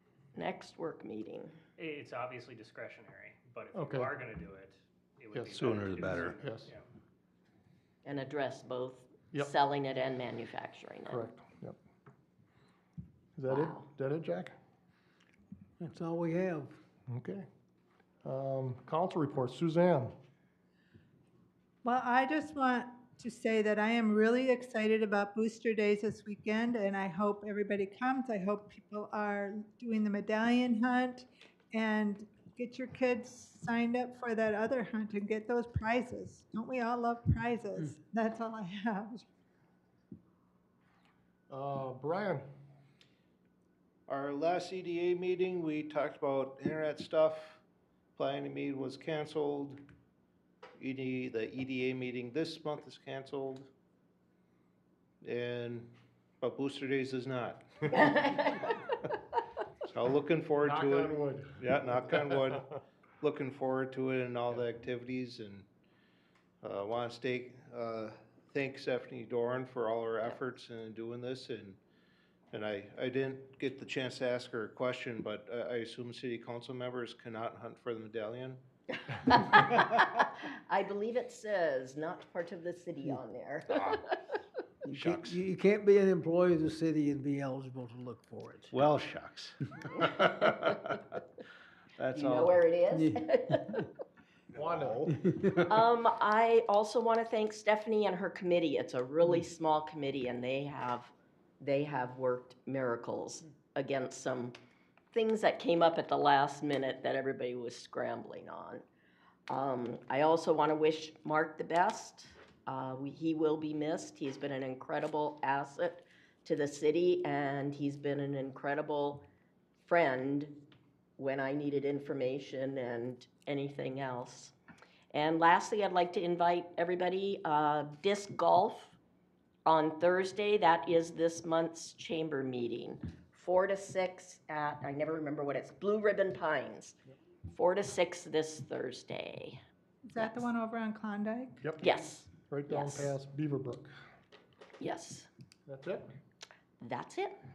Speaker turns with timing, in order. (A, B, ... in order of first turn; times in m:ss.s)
0:00.3-0:01.5 A
0:01.8-0:06.8 B
0:03.7-0:04.1 C
0:05.3-0:05.6 C
0:05.5-0:06.4 D
0:06.4-0:06.7 C
0:08.0-0:11.2 A
0:11.1-0:11.8 C
0:13.4-0:14.5 C
0:13.5-0:13.9 A
0:15.8-0:16.7 E
0:17.1-0:17.4 C
0:18.2-0:20.1 C
0:21.8-0:39.2 F
0:41.5-0:42.4 C
0:44.1-0:47.6 D
0:48.2-0:49.8 D
0:50.8-0:53.7 D
0:55.2-0:57.7 D
0:57.9-0:59.1 A
0:59.9-1:02.7 D
1:00.6-1:02.5 C
1:03.2-1:05.7 D
1:06.6-1:11.8 D
1:12.5-1:18.6 D
1:18.9-1:24.2 A
1:24.8-1:28.7 E
1:24.9-1:25.4 D
1:28.7-1:30.8 D
1:32.0-1:32.6 D
1:32.1-1:33.8 A
1:32.9-1:33.8 E
1:34.5-1:35.2 C
1:35.4-1:44.5 A
1:45.1-1:48.8 A
1:49.5-1:59.2 A
1:59.8-2:00.6 A
2:01.2-2:04.5 A
2:05.1-2:09.0 A
2:09.6-2:16.9 A
2:17.5-2:19.6 A
2:20.1-2:21.6 F
2:20.2-2:20.4 A
2:21.6-2:21.9 C
2:21.8-2:23.1 A
2:22.4-2:23.9 C
2:24.8-2:25.3 A
2:25.7-2:26.0 C
2:26.8-2:27.3 A